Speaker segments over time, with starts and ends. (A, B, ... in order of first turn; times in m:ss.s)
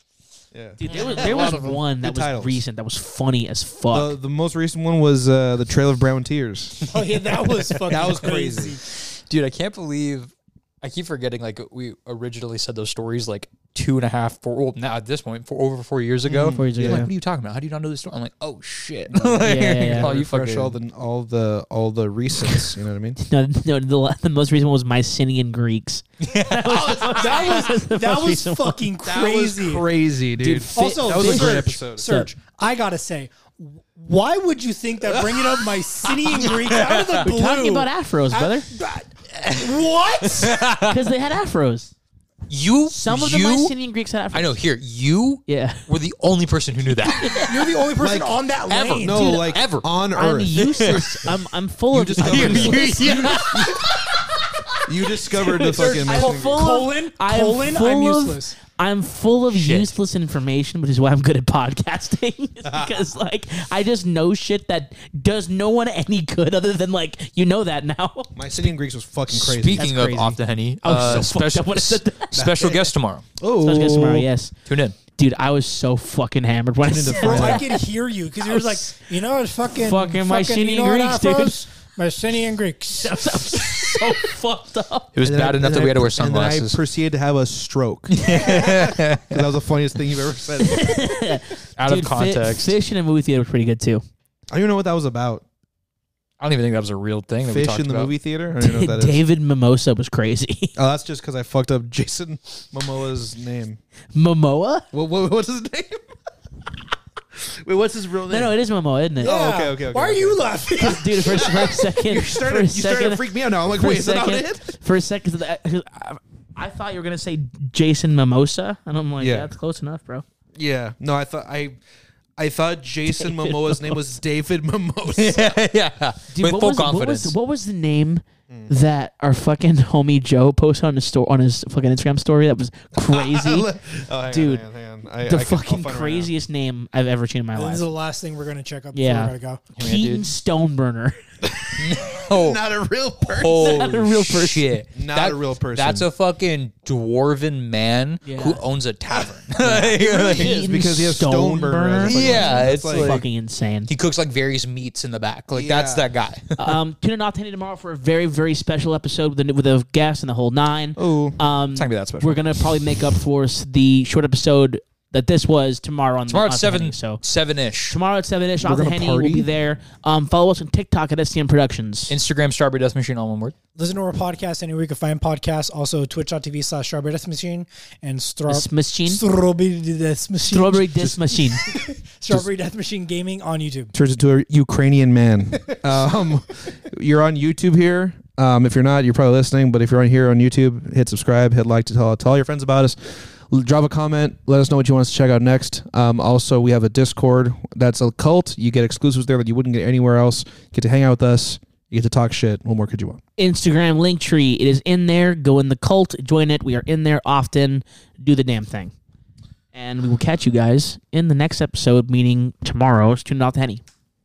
0:00.5-0:02.6 A
0:00.8-0:04.2 B
0:00.8-0:01.8 C
0:03.9-0:06.8 A
0:06.8-0:08.2 C
0:06.9-0:08.8 D
0:07.9-0:08.8 A
0:08.9-0:20.8 C
0:16.3-0:17.1 A
0:16.4-0:17.1 B
0:19.1-0:23.2 A
0:19.4-0:20.1 B
0:23.2-0:28.9 B
0:26.2-0:27.5 C
0:27.1-0:29.8 D
0:29.0-0:32.1 A
0:30.4-0:32.3 B
0:30.7-0:40.6 D
0:35.1-0:35.6 A
0:36.4-0:37.2 C
0:37.2-0:38.7 B
0:40.2-0:41.0 C
0:40.8-0:41.9 B
0:42.5-0:43.7 C
0:42.9-0:44.6 B
0:44.3-0:47.7 C
0:45.5-0:45.8 B
0:47.1-0:47.6 B
0:47.5-0:49.2 D
0:48.0-0:48.4 A
0:48.7-0:49.8 C
0:49.0-0:51.3 A
0:49.1-0:49.5 B
0:50.1-0:53.5 B
0:50.6-0:51.3 C
0:51.9-0:53.9 A
0:52.2-0:53.8 C
0:54.8-0:56.6 A
0:55.5-0:58.6 D
0:55.6-1:08.3 B
0:59.5-1:00.0 C
1:02.6-1:03.0 A
1:08.3-1:09.9 A
1:09.3-1:13.2 C
1:09.8-1:12.4 B
1:11.0-1:11.2 A
1:12.3-1:14.3 A
1:13.6-1:14.5 B
1:14.7-1:15.0 C
1:15.2-1:17.8 B
1:16.8-1:17.6 A
1:17.1-1:23.9 D
1:18.4-1:19.1 B
1:19.7-1:21.6 B
1:22.9-1:25.1 B
1:25.1-1:26.8 C
1:25.2-1:31.2 A
1:28.1-1:29.5 C
1:28.3-1:28.6 D
1:30.6-1:34.0 B
1:31.8-1:32.8 C
1:34.5-1:35.4 A
1:36.4-1:38.1 C
1:37.4-1:39.2 A
1:38.6-1:40.8 B
1:40.8-1:43.8 A
1:44.1-1:44.9 B
1:44.9-1:46.0 A
1:47.3-1:48.5 A
1:48.3-1:49.3 B
1:49.2-1:52.0 D
1:49.2-1:50.4 A
1:50.8-2:00.2 B
1:52.0-1:54.7 A
1:59.2-1:59.5 A
2:00.5-2:01.8 A
2:02.4-2:05.5 A
2:03.2-2:04.0 B
2:05.1-2:07.3 C
2:06.3-2:13.7 B
2:12.9-2:16.3 A
2:14.3-2:14.6 B
2:15.2-2:17.8 B
2:17.5-2:19.6 D
2:18.9-2:21.1 B
2:19.8-2:20.2 C
2:21.4-2:23.9 A
2:21.8-2:22.6 C
2:23.2-2:30.6 C
2:23.6-2:24.7 B
2:24.9-2:26.1 A
2:28.2-2:28.6 B
2:29.6-2:33.9 B
2:29.8-2:33.2 A
2:32.0-2:33.2 C
2:33.9-2:36.8 C
2:35.5-2:36.1 A
2:36.6-2:47.2 B
2:41.0-2:41.4 A
2:41.7-2:43.0 C
2:46.3-2:48.0 C
2:47.9-2:52.1 B
2:48.6-2:49.5 A
2:52.1-2:53.5 C
2:53.8-3:00.9 D
2:58.5-2:59.2 B
3:00.5-3:01.6 B
3:01.0-3:01.8 A
3:01.6-3:03.9 D
3:03.9-3:23.2 A
3:23.4-3:28.9 B
3:29.7-3:33.8 B